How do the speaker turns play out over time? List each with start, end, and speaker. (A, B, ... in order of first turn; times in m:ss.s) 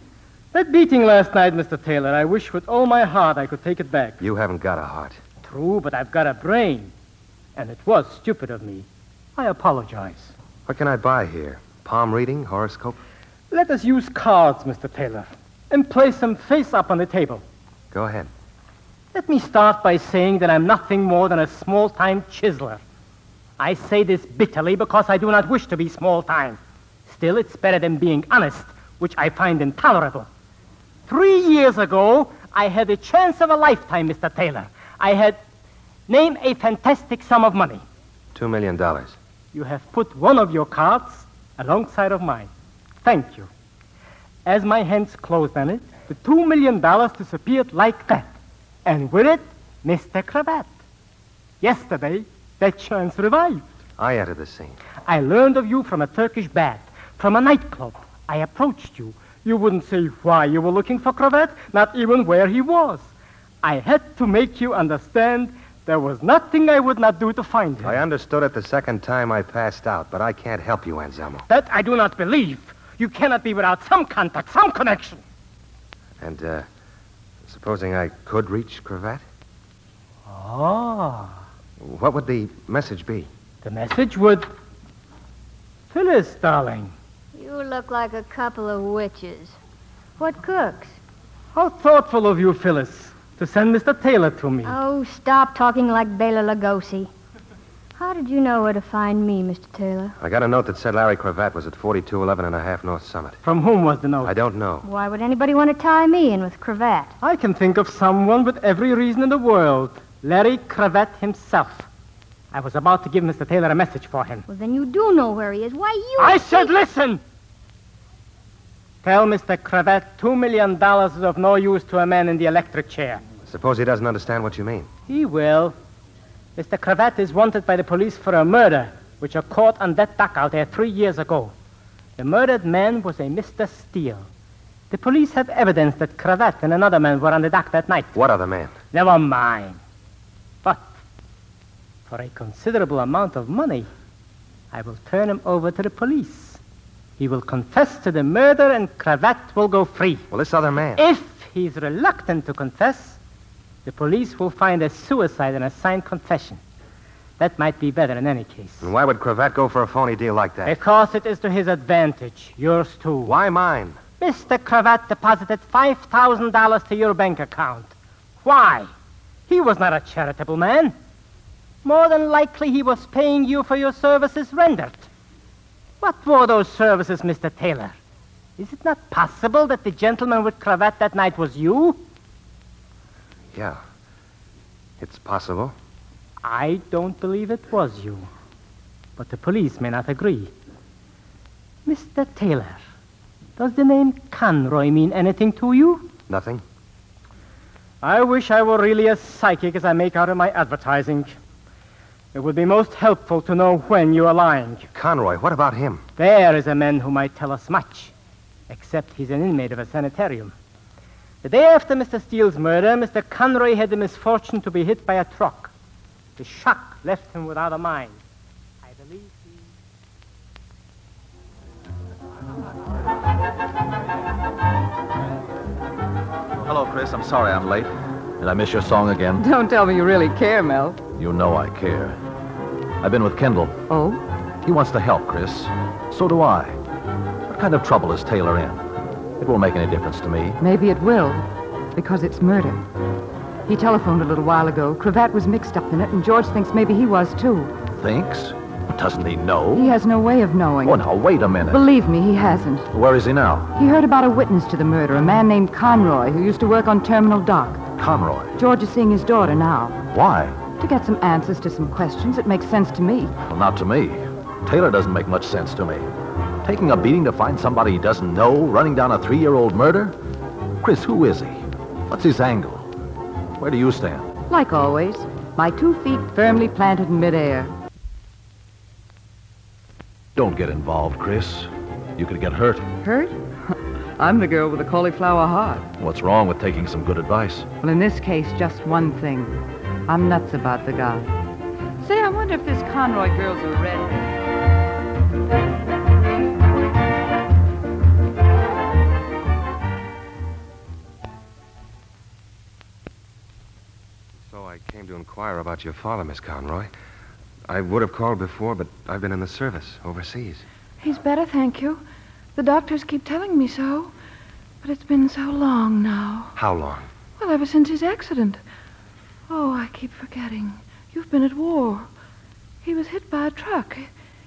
0:00.5-0:04.2 A
0:04.2-0:05.2 B
0:05.4-0:06.9 A
0:07.6-0:10.3 A
0:10.7-0:13.0 B
0:13.5-0:17.4 A
0:17.9-0:18.3 B
0:19.1-0:22.8 A
0:23.6-0:30.3 A
0:31.1-0:35.4 A
0:36.1-0:37.8 A
0:38.4-0:39.2 B
0:39.5-0:42.5 A
0:43.0-0:43.5 A
0:44.4-0:48.3 A
0:48.8-0:50.7 A
0:51.6-0:53.6 A
0:54.0-0:54.8 B
0:55.1-1:03.1 A
1:03.6-1:08.0 A
1:07.8-1:11.4 B
1:11.5-1:15.2 A
1:16.2-1:16.7 B
1:17.4-1:19.2 B
1:20.3-1:21.4 A
1:21.8-1:23.3 B
1:23.6-1:24.5 A
1:25.9-1:26.9 A
1:27.3-1:29.6 C
1:30.2-1:31.0 C
1:31.5-1:34.7 A
1:34.6-1:37.1 C
1:38.0-1:40.2 C
1:40.2-1:43.4 B
1:43.4-1:44.3 A
1:44.2-1:44.8 B
1:44.8-1:47.2 C
1:47.2-1:51.9 A
1:52.5-1:54.4 A
1:54.5-1:56.7 C
1:56.2-1:57.2 A
1:59.0-2:03.2 A
2:03.5-2:04.9 B
2:05.1-2:05.8 A
2:06.6-2:11.5 A
2:12.2-2:14.3 A
2:14.9-2:18.2 A
2:18.1-2:18.8 B
2:18.9-2:19.8 A
2:22.1-2:23.9 A
2:24.7-2:26.6 A
2:27.2-2:30.2 A
2:30.3-2:31.0 B
2:31.0-2:33.2 A
2:33.8-2:36.6 A
2:37.4-2:38.9 A
2:38.8-2:40.8 B
2:40.7-2:43.3 A
2:43.2-2:44.0 B
2:44.2-2:48.9 A
2:49.5-2:51.0 A
2:51.8-2:55.1 A
2:56.0-2:58.0 A
2:58.6-3:02.0 A
3:03.5-3:03.8 B
3:05.0-3:05.8 B
3:06.4-3:08.3 A
3:09.2-3:10.5 A
3:11.9-3:12.9 A
3:13.6-3:16.1 A
3:16.3-3:16.6 B
3:18.0-3:21.4 A
3:22.3-3:24.9 A
3:24.9-3:26.0 B
3:26.2-3:28.1 A
3:28.7-3:30.5 A
3:31.4-3:35.7 A
3:36.4-3:38.2 A
3:38.8-3:39.7 A
3:46.6-3:49.4 D
3:49.4-3:51.0 E
3:51.1-3:52.2 D
3:53.0-3:53.8 D
3:53.9-3:54.2 E
3:54.6-3:56.8 D
3:57.5-3:58.8 D
3:59.4-4:00.6 D
4:00.6-4:02.8 E
4:03.7-4:07.8 E
4:07.9-4:10.0 D
4:09.7-4:11.0 E
4:10.8-4:11.9 D
4:11.7-4:12.9 E
4:12.9-4:13.8 D
4:13.8-4:17.9 E
4:18.0-4:18.6 D
4:18.6-4:20.0 E
4:20.1-4:20.6 D
4:20.8-4:23.4 E
4:23.5-4:26.1 D
4:26.6-4:30.2 D
4:30.8-4:32.9 D
4:33.6-4:34.3 D
4:34.5-4:37.7 E
4:40.4-4:42.9 D
4:43.0-4:45.9 E
4:46.0-4:47.7 D
4:47.8-4:51.3 E
4:52.0-4:54.3 E
5:04.5-5:06.9 B
5:07.7-5:10.6 B
5:11.0-5:12.0 F
5:12.6-5:14.1 F
5:14.8-5:16.5 F
5:16.6-5:17.1 B
5:17.4-5:18.6 F
5:19.5-5:22.1 F
5:22.8-5:24.1 F